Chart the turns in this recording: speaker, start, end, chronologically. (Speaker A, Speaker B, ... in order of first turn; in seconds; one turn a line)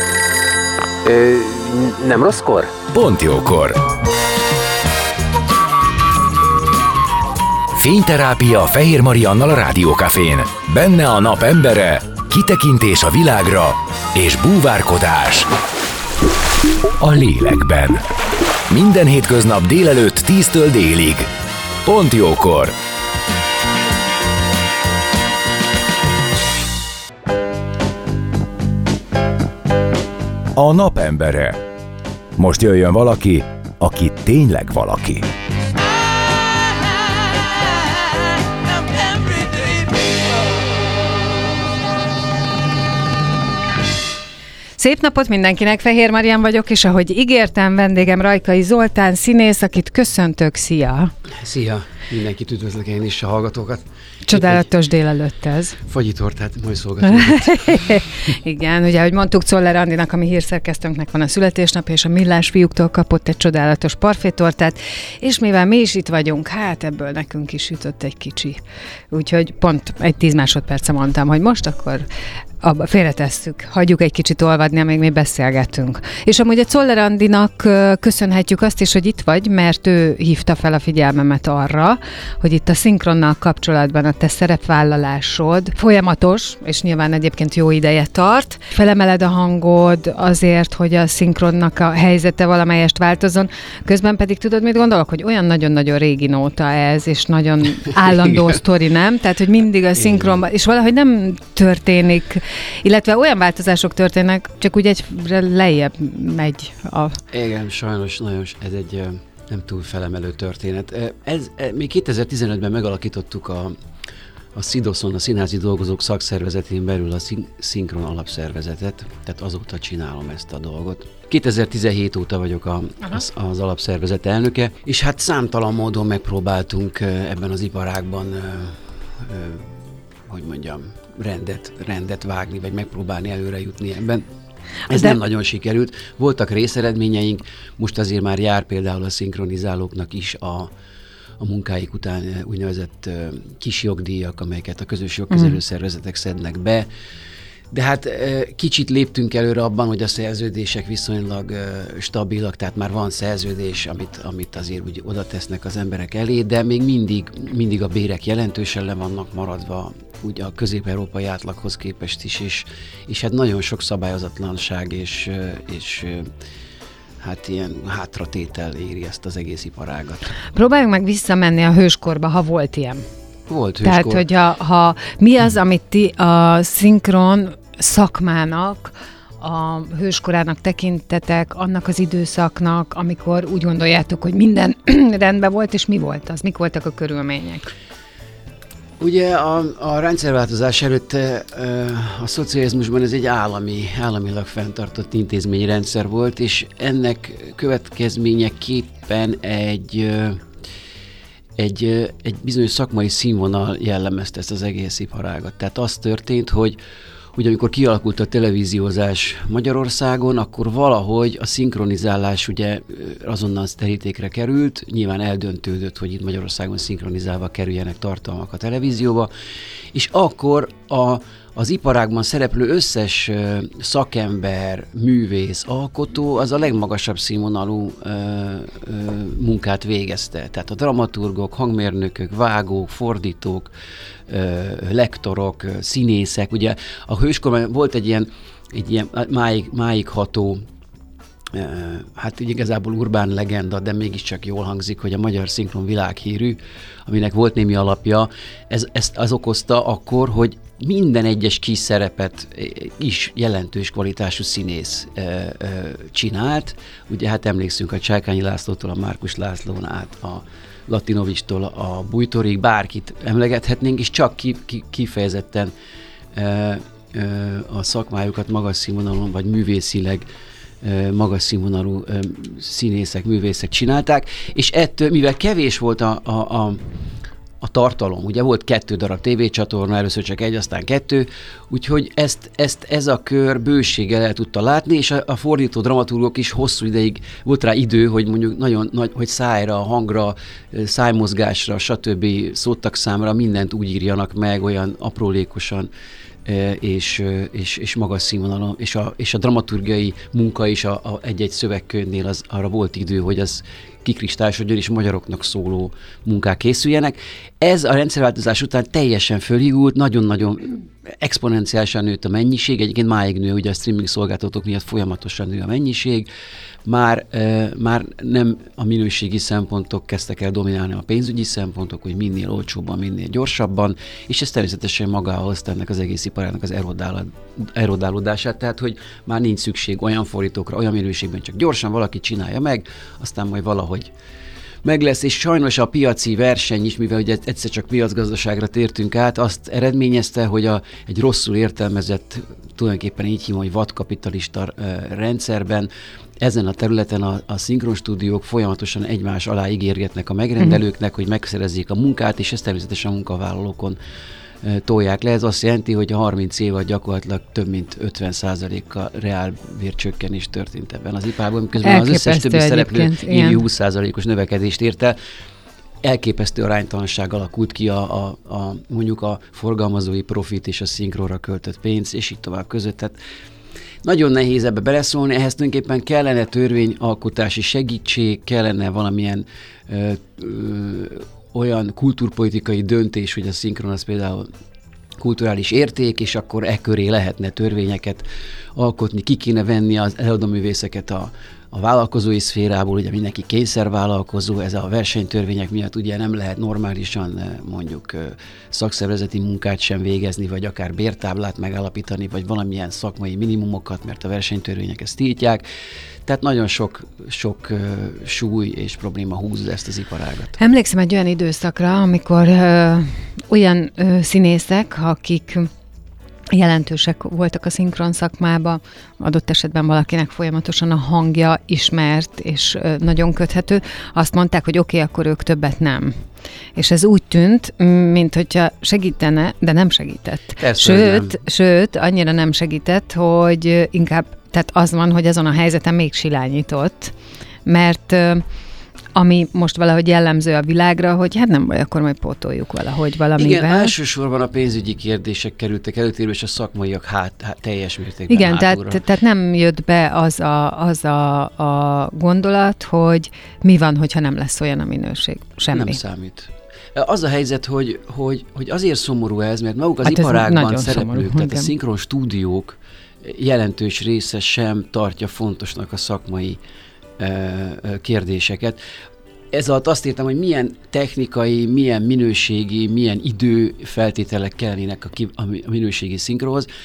Speaker A: 1.0-3.8
Speaker A: 7.8-15.5
Speaker A: 17.0-18.0
Speaker A: 18.7-21.3
Speaker A: 21.8-22.7
Speaker A: 30.6-31.6
Speaker A: 32.4-35.3
Speaker B: 44.8-51.1
Speaker C: 51.3-54.7
Speaker B: 54.3-55.8
Speaker C: 55.8-58.0
Speaker B: 57.0-68.6
Speaker B: 69.1-72.0
Speaker B: 72.6-107.2
Speaker C: 99.9-100.4
Speaker C: 107.3-113.7
Speaker C: 114.5-129.7
Speaker C: 130.3-134.2
Speaker C: 134.9-140.7
Speaker C: 141.4-146.9
Speaker B: 145.3-145.6
Speaker C: 147.7-166.3
Speaker C: 167.2-170.3
Speaker B: 170.5-173.0
Speaker C: 173.5-174.3
Speaker B: 173.8-187.7
Speaker C: 189.0-200.4
Speaker C: 201.6-206.8
Speaker C: 207.3-219.3
Speaker C: 219.9-233.7
Speaker C: 234.3-240.6
Speaker C: 241.5-265.7
Speaker C: 266.3-270.3
Speaker C: 270.8-276.8
Speaker C: 277.6-295.9
Speaker C: 296.4-316.3
Speaker C: 316.8-334.1
Speaker C: 334.8-354.0
Speaker C: 354.6-365.2
Speaker B: 361.8-363.6
Speaker C: 366.0-373.2
Speaker C: 374.0-384.5
Speaker C: 385.2-405.6
Speaker C: 406.2-410.6
Speaker B: 410.6-415.7
Speaker B: 416.5-426.1
Speaker B: 426.8-437.1
Speaker C: 430.6-431.4
Speaker B: 437.6-438.4
Speaker B: 439.1-443.9
Speaker C: 443.4-449.0
Speaker B: 448.3-456.0
Speaker C: 455.7-466.6
Speaker B: 460.0-461.7
Speaker C: 467.2-468.8
Speaker C: 469.5-476.7